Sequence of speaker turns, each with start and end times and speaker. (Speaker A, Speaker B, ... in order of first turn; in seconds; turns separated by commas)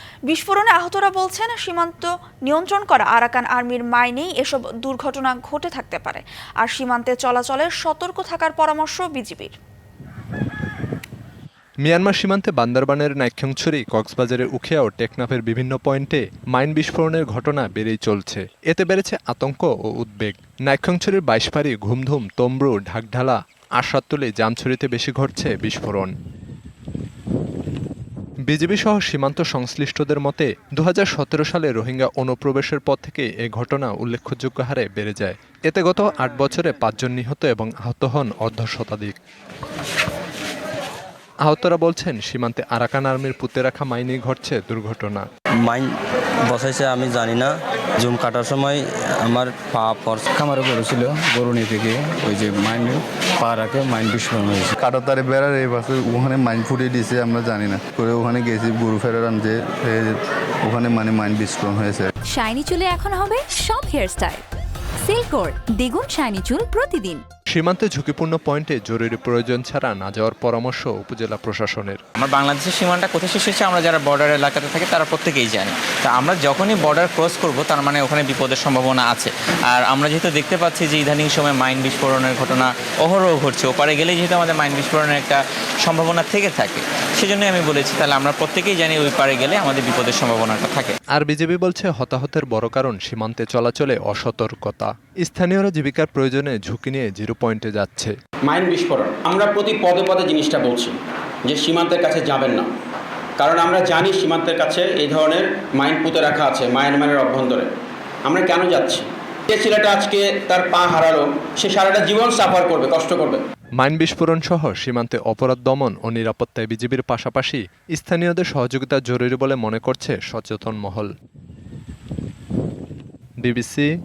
Speaker A: 0.3-9.5, Speaker B: 11.8-26.1, Speaker B: 28.5-39.2, Speaker B: 41.4-45.2, Speaker C: 45.6-45.9, Speaker C: 46.4-50.3, Speaker D: 50.3-54.7, Speaker E: 54.8-62.1, Speaker F: 62.3-64.4, Speaker F: 65.0-67.2, Speaker B: 67.5-72.0, Speaker G: 72.2-91.0, Speaker B: 91.1-98.1, Speaker H: 98.5-102.7, Speaker H: 103.4-107.7, Speaker H: 108.2-113.4, Speaker B: 113.8-121.1, Speaker B: 123.4-123.9